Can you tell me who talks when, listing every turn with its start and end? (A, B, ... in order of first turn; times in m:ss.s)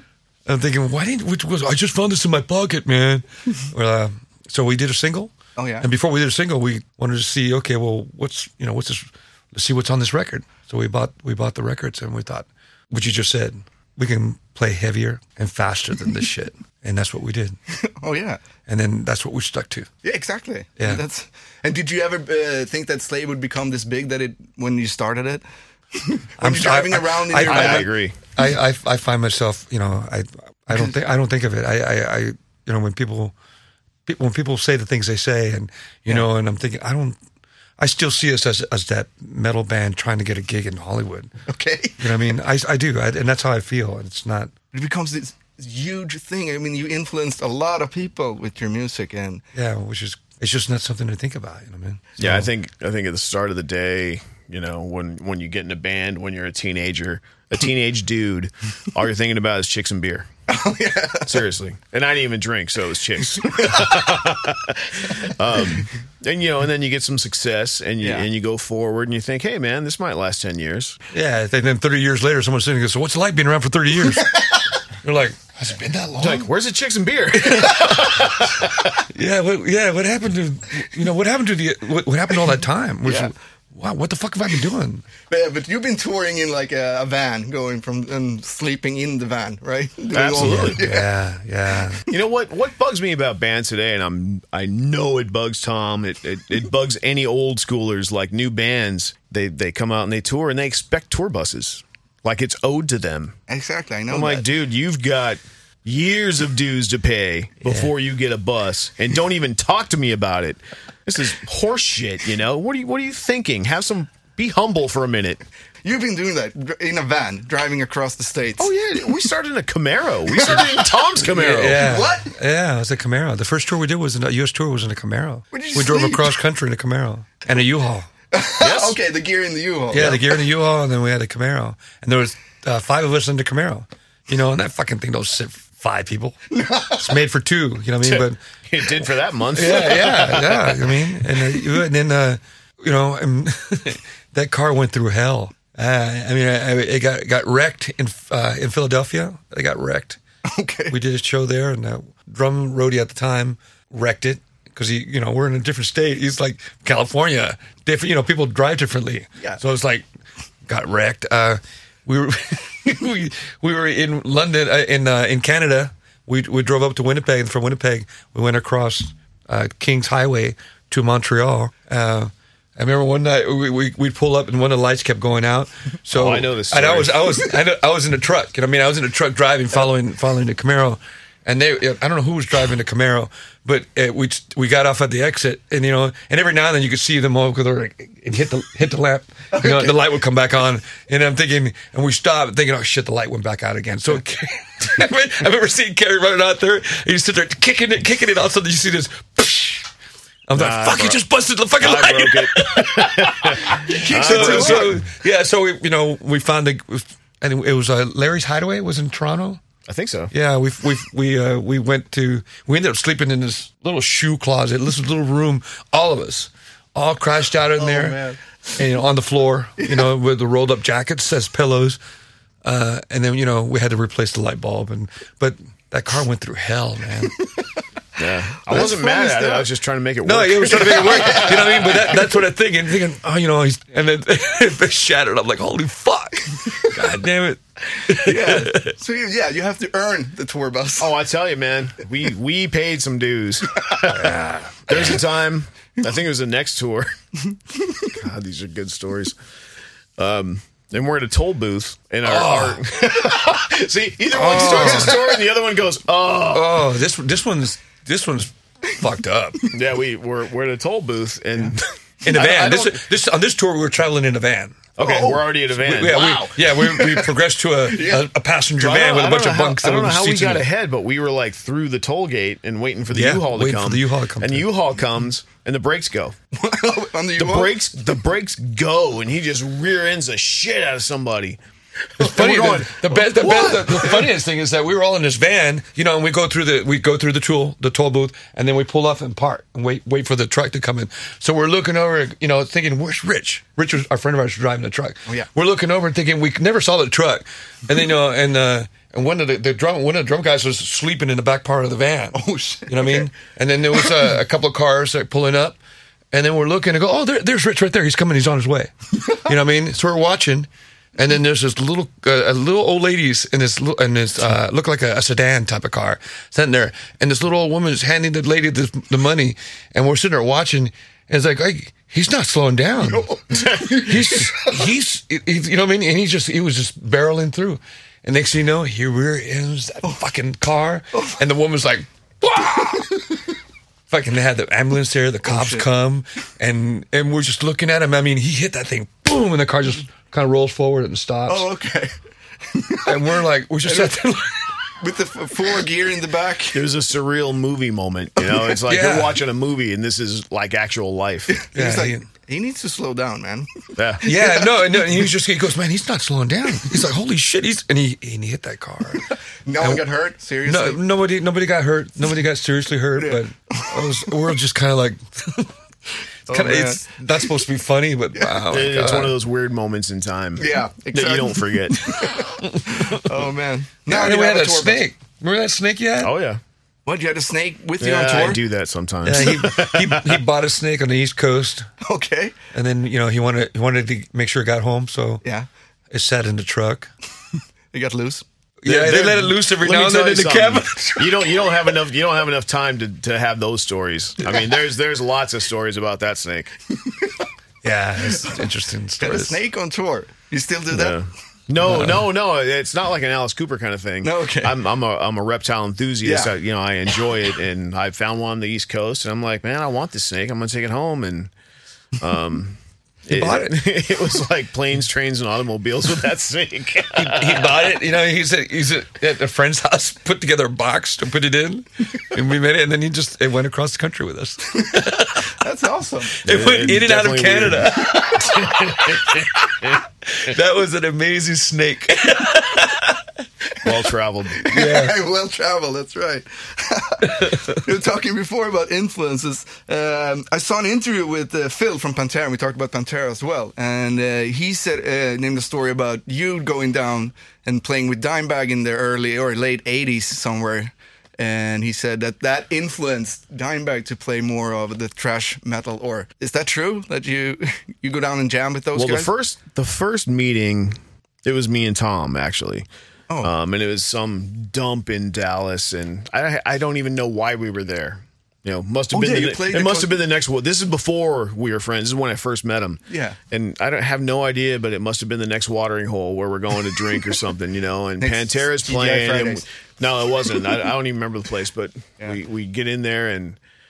0:00.5-0:17.6 A
0:05.6-0:05.9 B
0:17.7-0:18.4 B
0:18.7-0:19.9 A
0:20.0-0:25.4 B
0:25.9-0:27.9 B
0:26.4-0:33.3 A
0:27.4-0:28.2 C
0:34.1-0:37.2 A
0:37.8-0:41.3 A
0:41.5-0:42.1 B
0:42.0-0:44.5 A
0:44.7-0:49.4 B
0:49.5-0:52.5 A
0:52.2-1:00.3 C
1:00.5-1:01.4 B
1:01.3-1:11.0 C
1:03.4-1:04.2 B
1:08.0-1:08.3 B
1:11.1-1:14.5 A
1:14.3-1:14.6 B
1:15.0-1:16.5 A
1:16.2-1:19.0 C
1:17.4-1:18.4 B
1:19.1-1:25.1 A
1:23.0-1:23.3 B
1:25.3-1:31.1 B
1:30.1-1:30.8 C
1:30.4-1:32.0 A
1:32.1-1:43.4 C
1:43.5-1:44.5 B
1:44.1-1:55.4 C
1:47.6-1:47.9 A
1:55.8-1:59.3 B
1:58.6-2:02.0 C
2:00.3-2:01.0 B
2:01.3-2:08.1 A
2:01.7-2:02.3 B
2:05.5-2:06.4 B
2:08.3-2:10.3 B
2:08.6-2:09.0 C
2:09.9-2:16.4 A
2:16.5-2:17.1 B
2:16.9-2:18.4 A
2:18.0-2:21.0 C
2:19.5-2:30.2 A
2:30.4-2:31.0 B
2:30.9-2:40.1 A
2:40.7-3:19.9 A
2:56.1-2:57.4 C
3:09.5-3:09.9 B
3:20.5-3:29.6 A
3:20.6-3:21.2 C
3:21.8-3:25.0 C
3:23.7-3:25.0 B
3:29.9-3:30.3 C
3:30.3-3:38.2 A
3:37.8-3:38.4 B
3:38.8-3:42.0 A
3:42.6-3:47.4 A
3:48.2-3:52.1 C
3:48.7-3:49.7 B
3:50.2-3:58.9 A
3:50.6-3:52.1 B
3:58.0-4:01.2 B
4:01.0-4:07.1 C
4:04.1-4:05.2 A
4:08.0-4:09.3 C
4:10.2-4:16.9 C
4:12.2-4:12.8 A
4:14.3-4:15.2 A
4:14.4-4:15.4 B
4:16.5-4:19.7 A
4:19.7-4:23.0 C
4:22.2-4:24.9 A
4:25.0-4:26.4 C
4:25.0-4:28.3 B
4:25.8-4:30.7 A
4:28.8-4:36.4 C
4:33.1-4:34.7 A
4:36.5-4:38.1 B
4:37.4-4:41.6 C
4:42.2-5:05.8 A
4:42.2-4:42.9 B
4:42.2-4:44.3 C
5:02.3-5:03.3 B
5:06.3-5:23.3 A
5:23.1-5:24.9 B
5:23.5-5:24.4 C
5:24.0-5:33.2 A
5:34.1-5:41.7 A
5:35.4-5:35.9 B
5:41.5-5:42.1 B
5:42.7-5:43.1 B
5:43.0-5:44.7 A
5:43.8-5:44.2 B
5:45.0-5:46.8 B
5:46.7-5:51.6 C
5:48.8-5:49.4 A
5:51.5-5:55.2 B
5:51.7-5:52.3 A
5:54.0-5:54.2 C
5:54.2-5:59.3 A
5:59.7-6:01.0 B
5:59.8-6:00.0 A
6:00.6-6:05.7 A
6:03.2-6:04.3 B
6:06.5-6:07.0 B
6:06.5-6:09.4 A
6:08.3-6:08.6 B
6:08.7-6:12.2 C
6:10.6-6:15.1 B
6:12.2-6:13.2 A
6:14.1-6:16.4 A
6:16.2-6:16.6 C
6:17.1-6:18.6 B
6:18.0-6:20.4 C
6:19.2-6:21.9 A
6:22.0-6:22.6 B
6:22.7-6:25.4 A
6:26.1-6:27.1 A
6:27.9-6:28.4 B
6:28.8-6:31.7 A
6:28.9-6:36.7 C
6:37.0-6:37.4 B
6:37.8-6:39.6 A
6:38.3-6:38.6 B
6:39.2-6:41.2 B
6:40.9-6:51.5 C
6:41.8-6:42.3 A
6:44.2-6:44.8 B
6:46.2-6:46.6 B
6:52.2-6:57.7 C
6:53.3-6:53.8 A
6:57.1-7:05.5 A
7:05.0-7:06.4 B
7:06.4-7:13.2 A
7:06.5-7:10.0 C
7:08.2-7:08.5 B
7:13.8-7:14.7 C
7:14.6-7:39.3 B
7:14.7-7:15.2 A
7:17.4-7:17.7 A
7:39.0-7:42.9 C
7:43.4-8:03.6 C
7:49.1-7:50.2 B
7:53.1-7:53.4 B
7:58.2-7:59.6 B